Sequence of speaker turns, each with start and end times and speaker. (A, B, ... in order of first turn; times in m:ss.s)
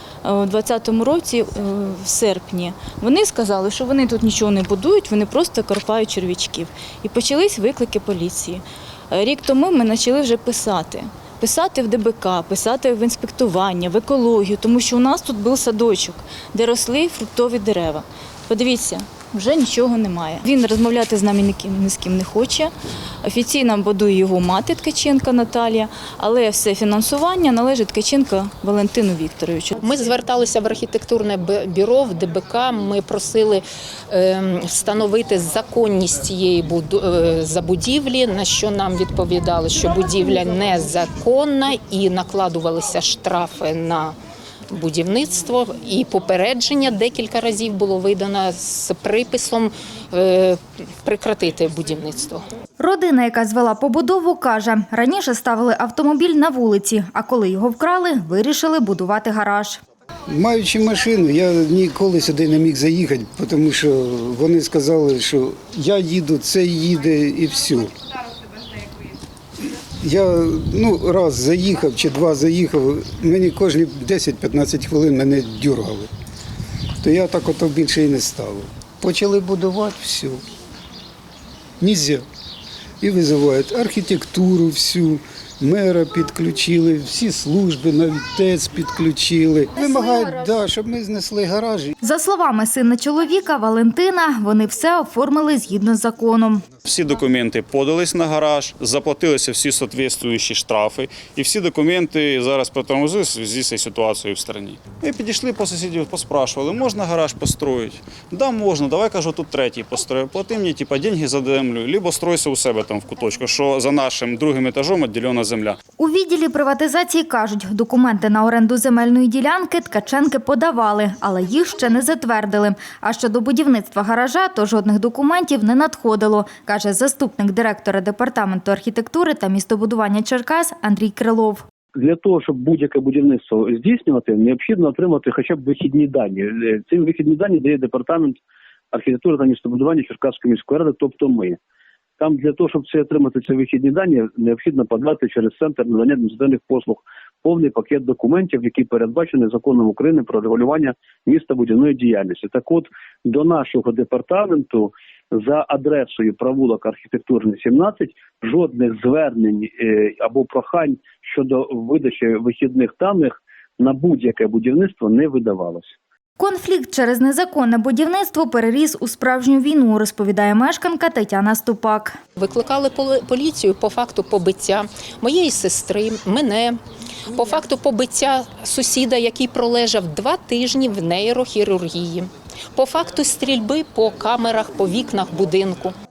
0:00.2-0:22.7 A
0:23.2-0:29.8 A
0:29.8-0:44.1 B
0:44.7-0:52.4 B
0:52.8-0:59.8 C
1:00.3-1:08.0 D
1:09.9-1:16.1 D
1:17.0-1:20.4 D
1:21.8-1:22.2 D
1:23.0-1:31.9 D
1:29.8-1:30.6 B
1:32.0-1:36.6 C
1:36.8-1:55.8 E
1:56.0-2:11.6 C
2:12.0-2:18.4 F
2:18.9-2:21.6 F
2:22.2-2:46.0 F
2:46.4-2:52.1 C
2:52.4-3:05.9 B